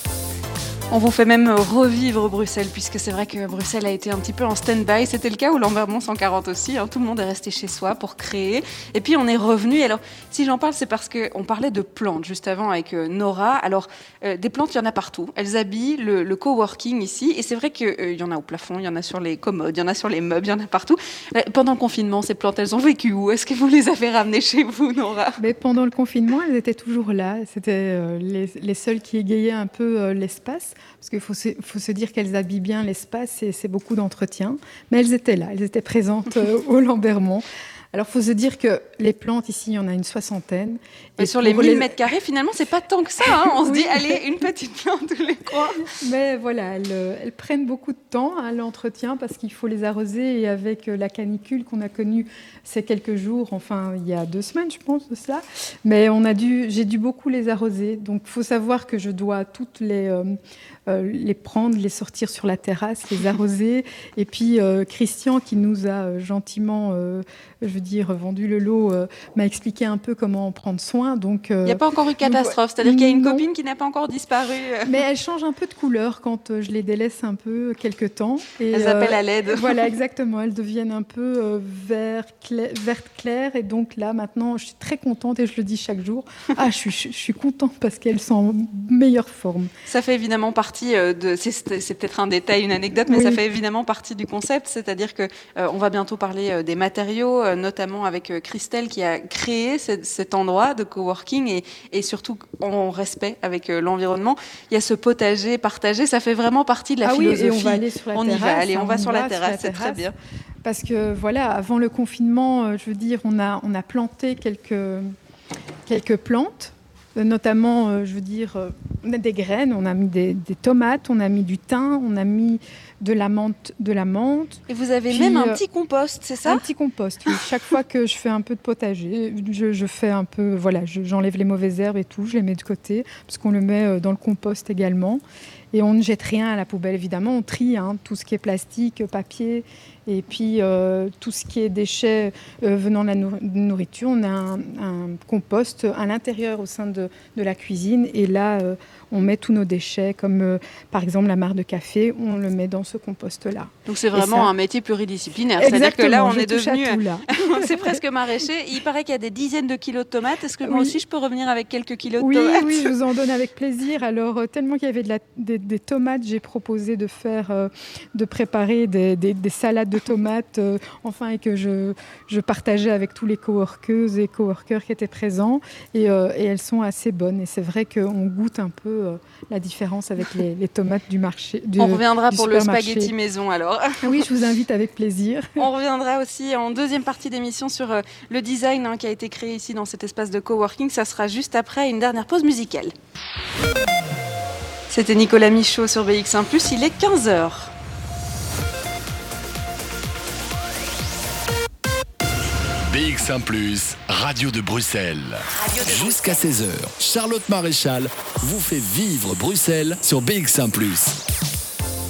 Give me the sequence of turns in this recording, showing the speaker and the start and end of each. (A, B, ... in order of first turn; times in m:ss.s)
0:00.9-0:25.4 A
0:25.4-0:41.9 B
0:41.2-0:45.8 A
0:43.3-0:44.2 B
0:45.9-1:13.4 B
1:11.6-1:14.9 A
1:14.8-1:29.7 B
1:18.7-1:19.9 A
1:29.9-1:50.1 A
1:33.1-1:33.4 B
1:47.0-1:50.0 B
1:50.6-1:55.1 B
1:55.8-2:04.6 B
2:04.7-2:06.6 A
2:05.1-2:05.6 B
2:06.4-2:34.5 B
2:33.9-2:42.9 A
2:35.6-2:38.0 B
2:40.6-2:40.9 B
2:42.2-3:03.1 B
3:01.8-3:04.3 A
3:04.0-3:05.6 B
3:05.6-3:12.9 A
3:14.9-3:17.7 A
3:22.9-3:31.2 C